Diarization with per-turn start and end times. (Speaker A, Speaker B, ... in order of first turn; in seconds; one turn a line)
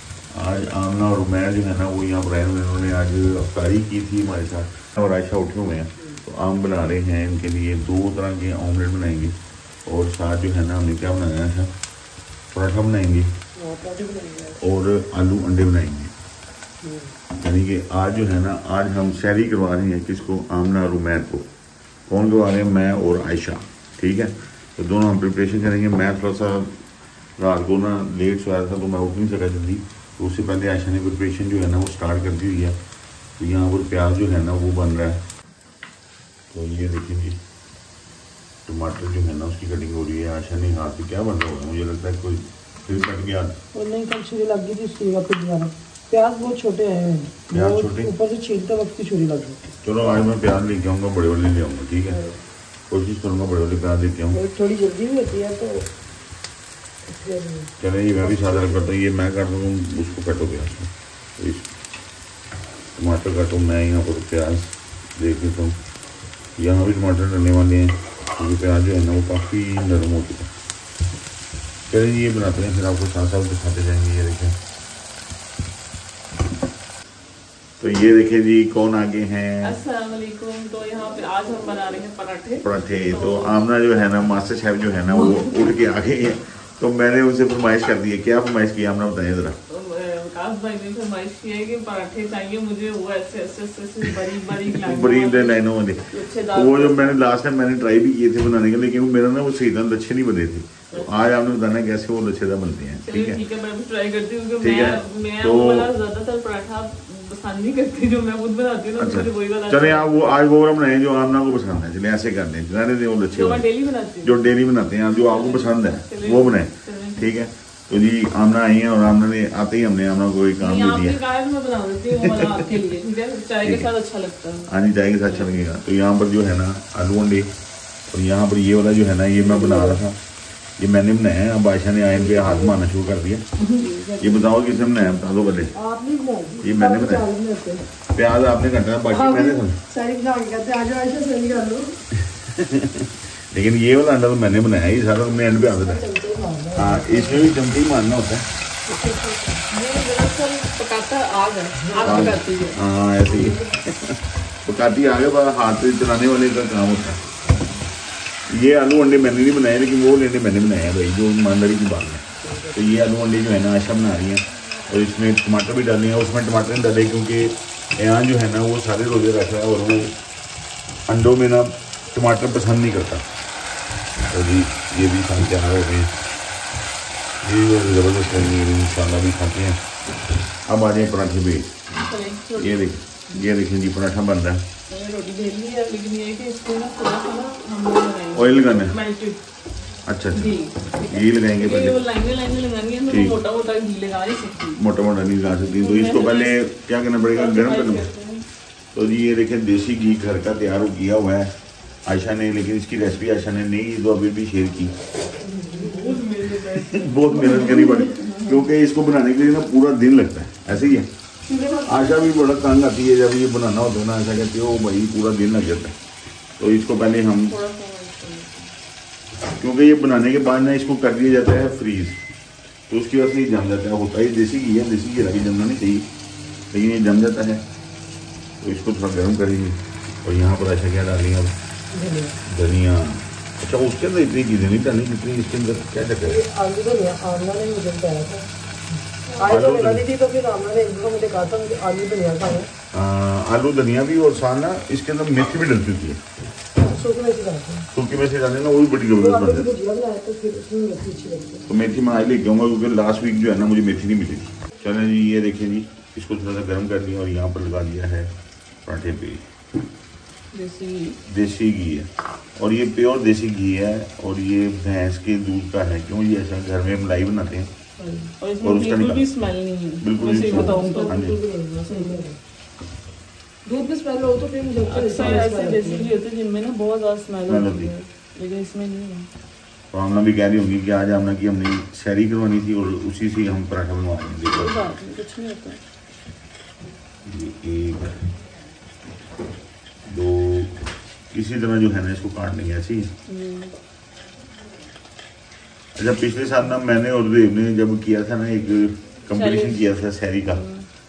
Speaker A: 0.3-11.7
Speaker A: 12.5-13.3
Speaker B: 13.6-14.6
Speaker A: 14.6-16.1
Speaker B: 16.8-17.1
Speaker A: 17.4-21.5
Speaker A: 22.1-26.8
Speaker A: 27.4-32.8
Speaker A: 33.4-35.2
Speaker A: 36.5-37.4
Speaker A: 38.6-43.5
Speaker B: 43.7-49.6
Speaker A: 47.5-48.1
Speaker A: 49.8-52.2
Speaker B: 52.1-52.4
Speaker A: 52.9-54.4
Speaker B: 54.3-55.9
Speaker B: 57.0-58.9
Speaker A: 57.8-61.7
Speaker A: 63.0-65.8
Speaker A: 66.6-70.5
Speaker A: 71.9-74.6
Speaker A: 77.8-79.8
Speaker C: 79.6-83.6
Speaker A: 82.6-89.6
Speaker C: 89.7-97.3
Speaker A: 94.5-103.4
Speaker C: 103.0-110.1
Speaker A: 104.6-105.9
Speaker A: 109.0-113.7
Speaker C: 113.3-114.4
Speaker A: 114.2-121.2
Speaker C: 115.3-117.4
Speaker C: 120.6-125.7
Speaker A: 122.1-122.7
Speaker A: 123.6-123.9
Speaker A: 124.7-127.5
Speaker A: 128.1-130.2
Speaker B: 129.3-130.0
Speaker A: 130.8-133.4
Speaker B: 132.1-132.8
Speaker B: 133.7-134.8
Speaker A: 134.2-135.7
Speaker B: 135.7-137.9
Speaker A: 136.6-137.3
Speaker A: 138.1-139.8
Speaker B: 139.1-142.0
Speaker A: 142.1-146.0
Speaker B: 145.6-147.5
Speaker A: 146.7-148.5
Speaker B: 148.8-149.6
Speaker C: 149.7-152.8
Speaker B: 151.8-152.6
Speaker A: 152.0-157.3
Speaker B: 153.3-153.6
Speaker A: 158.5-170.2
Speaker B: 162.4-162.8
Speaker A: 171.1-173.2
Speaker A: 174.3-176.2
Speaker A: 177.4-179.8
Speaker A: 180.7-181.7
Speaker C: 181.9-182.9
Speaker A: 182.6-184.6
Speaker C: 184.9-189.4
Speaker A: 188.3-189.0
Speaker A: 190.1-192.0
Speaker C: 190.3-194.8
Speaker A: 193.1-193.4
Speaker A: 194.8-198.1
Speaker C: 195.8-196.6
Speaker C: 197.3-198.4
Speaker A: 198.9-204.9
Speaker B: 205.5-206.2
Speaker C: 205.5-208.6
Speaker A: 206.6-211.1
Speaker B: 207.4-208.0
Speaker C: 211.5-212.4
Speaker A: 211.8-215.9
Speaker A: 216.6-217.6
Speaker C: 217.4-218.7
Speaker A: 219.5-222.2
Speaker A: 222.9-226.1
Speaker A: 226.7-227.6
Speaker A: 228.6-231.5
Speaker B: 231.9-232.4
Speaker A: 232.4-236.4
Speaker B: 236.2-238.5
Speaker B: 239.3-242.7
Speaker A: 239.4-240.1
Speaker A: 242.9-246.2
Speaker B: 246.7-247.9
Speaker A: 247.9-249.7
Speaker B: 249.1-251.7
Speaker A: 251.7-258.3
Speaker A: 258.9-259.4
Speaker C: 260.5-261.2
Speaker A: 261.2-267.7
Speaker B: 268.0-268.3
Speaker C: 268.4-271.3
Speaker A: 268.6-269.3
Speaker A: 270.0-271.4
Speaker B: 270.3-272.4
Speaker C: 271.8-272.2
Speaker B: 273.6-276.1
Speaker C: 274.8-279.3
Speaker A: 275.2-275.5
Speaker A: 277.5-277.9
Speaker A: 279.9-284.8
Speaker C: 284.5-285.8
Speaker A: 287.2-288.2
Speaker A: 290.1-290.7
Speaker A: 291.3-293.1
Speaker C: 293.3-293.7
Speaker A: 295.9-300.6
Speaker C: 299.3-299.9
Speaker C: 300.5-300.9